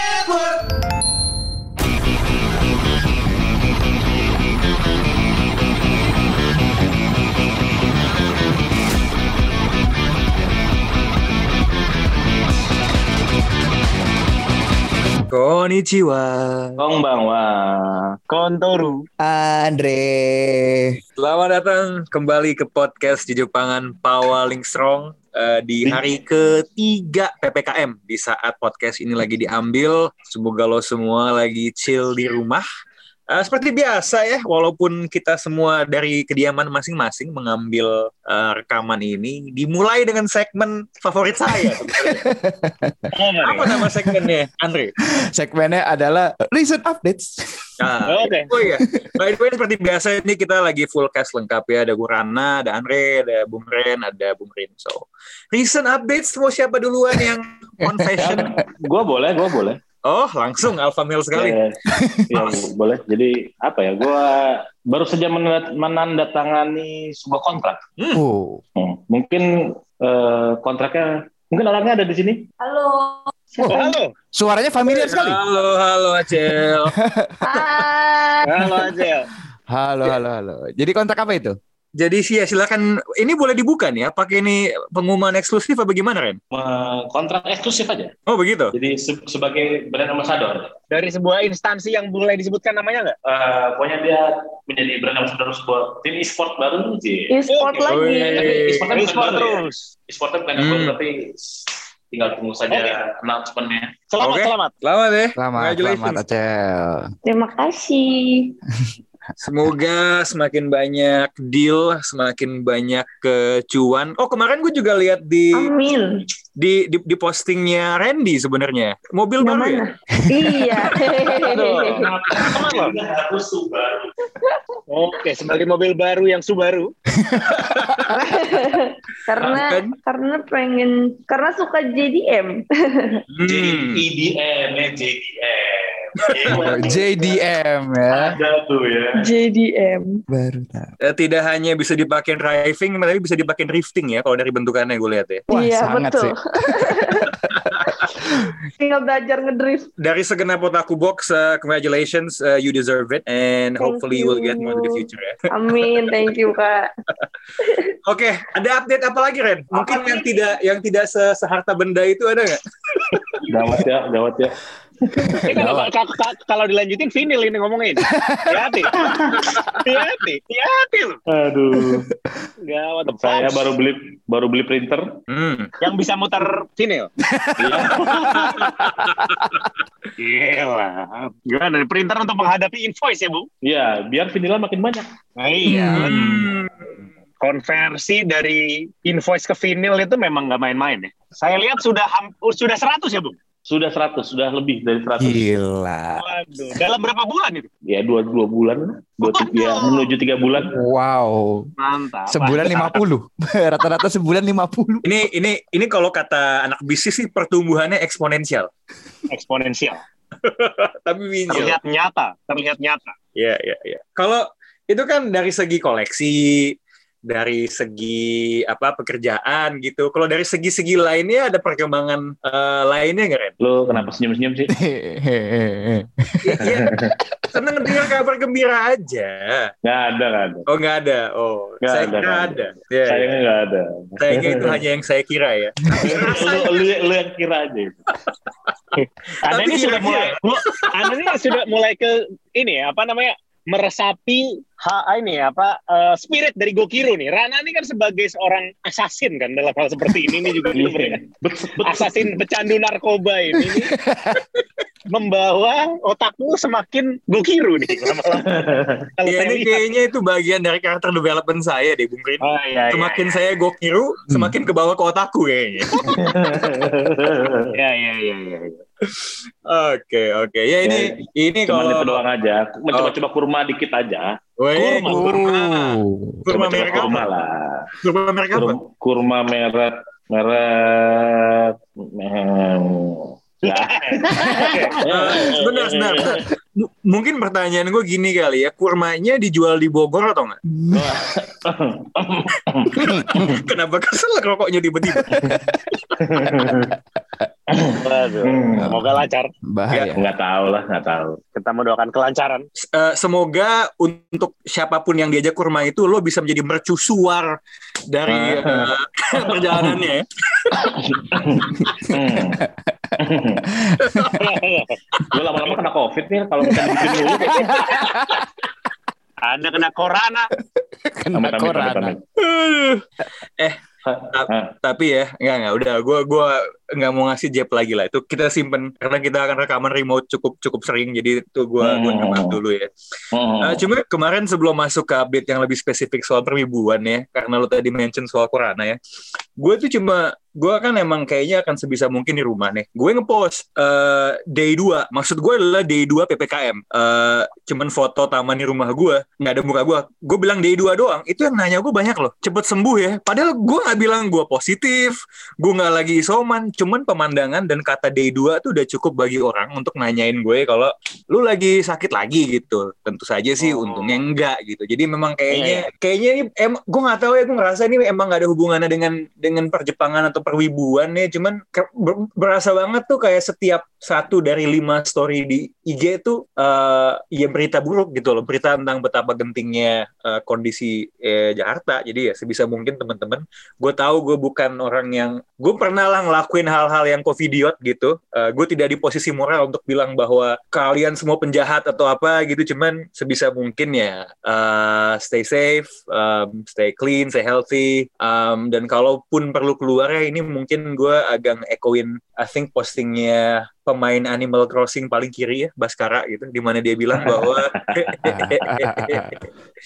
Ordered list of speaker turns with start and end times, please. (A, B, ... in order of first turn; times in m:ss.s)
0:15.3-0:16.8 A
0:16.8-0:18.2 B
0:18.3-0:19.1 C
0:19.2-0:21.0 D
0:21.2-0:32.7 A
0:33.3-0:42.2 A
0:41.6-0:43.1 D
0:43.1-0:43.7 C
0:43.4-0:44.9 A
0:43.8-0:44.2 D
0:45.0-0:47.7 D
0:47.8-0:58.6 A
0:48.1-0:48.5 C
0:48.6-0:49.1 D
0:57.8-0:58.6 D
0:58.2-0:59.8 B
1:00.0-1:01.6 A
1:01.3-1:01.8 B
1:01.9-1:02.4 D
1:02.3-1:07.8 B
1:08.0-1:08.2 A
1:08.1-1:08.6 D
1:08.8-1:12.4 B
1:12.6-1:13.9 E
1:13.6-1:15.4 D
1:13.6-1:14.1 C
1:14.9-1:16.9 A
1:16.4-1:17.4 D
1:17.4-1:18.9 E
1:18.4-1:19.3 C
1:19.7-1:21.6 D
1:22.0-1:26.4 A
1:26.5-1:28.1 B
1:28.3-1:28.8 A
1:28.7-1:30.7 B
1:30.9-1:33.2 C
1:33.2-1:37.4 B
1:37.3-1:38.7 E
1:37.5-1:38.0 C
1:37.9-1:38.9 A
1:38.3-1:43.9 B
1:38.9-1:39.9 C
1:40.6-1:41.0 A
1:42.7-1:43.0 C
1:44.1-1:44.7 C
1:44.2-1:46.2 A
1:45.4-1:47.1 D
1:47.3-1:48.6 E
1:49.4-1:55.7 A
1:55.5-1:56.3 E
1:56.6-1:59.8 A
1:59.4-2:02.1 E
2:00.3-2:01.2 D
2:01.5-2:03.0 C
2:01.6-2:04.1 B
2:04.9-2:06.9 C
2:07.2-2:08.0 D
2:07.6-2:08.1 A
2:08.1-2:13.2 E
2:09.4-2:10.0 A
2:13.3-2:14.0 A
2:13.4-2:17.4 B
2:16.2-2:16.7 A
2:16.6-2:18.4 D
2:18.1-2:19.3 B
2:19.2-2:20.2 E
2:20.3-2:20.9 D
2:21.0-2:25.4 A
2:25.5-2:27.3 E
2:25.5-2:27.4 D
2:27.6-2:27.9 A
2:27.9-2:28.5 D
2:28.8-2:29.9 E
2:30.0-2:35.9 A
2:33.8-2:36.9 E
2:37.6-2:37.9 E
2:38.1-2:43.5 A
2:39.8-2:40.2 C
2:43.5-2:45.5 B
2:45.2-2:45.9 D
2:45.4-2:49.1 C
2:48.1-2:48.6 D
2:48.9-2:49.5 B
2:49.8-2:51.2 C
2:51.3-2:52.1 B
2:51.8-2:52.3 D
2:52.7-2:53.7 C
2:53.2-2:55.1 B
2:55.3-2:55.7 A
2:55.8-2:57.1 C
2:57.3-2:59.5 D
2:57.6-2:58.5 B
2:58.0-2:58.4 C
2:58.4-2:59.6 A
3:00.2-3:03.5 C
3:03.6-3:05.1 B
3:05.4-3:06.5 C
3:05.7-3:06.4 D
3:05.8-3:06.9 A
3:07.4-3:13.3 C
3:13.7-3:15.5 B
3:15.2-3:16.2 D
3:16.2-3:17.7 C
3:17.9-3:20.8 B
3:19.2-3:20.1 C
3:20.6-3:21.7 D
3:21.8-3:23.0 C
3:22.3-3:25.1 D
3:25.0-3:28.7 A
3:29.3-3:30.0 C
3:30.4-3:31.8 A
3:31.5-3:33.2 C
3:33.4-3:36.7 A
3:37.3-3:43.6 A
3:43.6-3:44.7 B
3:44.8-3:46.8 D
3:46.4-3:47.0 A
3:46.6-3:47.2 B
3:47.5-3:49.7 A
3:47.6-3:48.1 D
3:49.8-3:50.6 B
3:50.7-3:53.4 A
3:51.8-3:54.8 B
3:54.2-3:56.9 A
3:56.0-3:58.0 B
3:59.4-4:11.2 C
3:59.5-4:00.3 B
3:59.5-4:00.9 A
4:10.7-4:12.4 B
4:11.8-4:14.0 C
4:13.6-4:14.4 D
4:15.1-4:18.6 C
4:18.3-4:19.1 B
4:19.2-4:19.8 C
4:19.3-4:26.2 A
4:22.4-4:23.4 C
4:26.1-4:27.7 B
4:27.7-4:28.8 C
4:29.1-4:32.2 A
4:30.8-4:31.2 B
4:31.7-4:35.3 B
4:32.9-4:33.2 A
4:34.6-4:37.3 A
4:35.0-4:36.5 D
4:36.5-4:37.9 B
4:38.0-4:38.8 A
4:38.5-4:46.5 B
4:43.6-4:45.0 C
4:44.4-4:44.8 D
4:45.0-4:50.6 A
4:50.7-4:51.1 D
4:50.9-4:53.6 B
4:52.9-4:55.5 A
4:52.9-4:53.5 D
4:55.1-4:55.8 D
4:55.4-4:57.0 B
4:57.7-4:58.9 B
4:58.0-4:59.5 C
4:58.8-4:59.1 D
4:59.7-5:00.2 D
5:00.1-5:01.4 B
5:01.6-5:02.7 C
5:02.8-5:07.6 A
5:08.1-5:10.9 A
5:08.3-5:10.1 B
5:10.8-5:12.6 B
5:12.0-5:13.1 D
5:13.2-5:13.7 B
5:13.7-5:14.4 D
5:14.0-5:14.4 A
5:14.4-5:15.0 C
5:15.3-5:17.9 B
5:17.3-5:18.2 C
5:17.5-5:18.4 D
5:19.4-5:20.5 C
5:20.8-5:22.2 D
5:21.4-5:22.2 B
5:22.4-5:23.0 A
5:23.6-5:32.9 A
5:24.1-5:24.7 B
5:31.8-5:32.6 B
5:33.3-5:33.8 B
5:33.6-5:39.0 A
5:39.6-6:49.5 A
6:03.6-6:04.2 B
6:05.5-6:05.8 B
6:47.2-6:48.1 B
6:48.2-6:49.4 D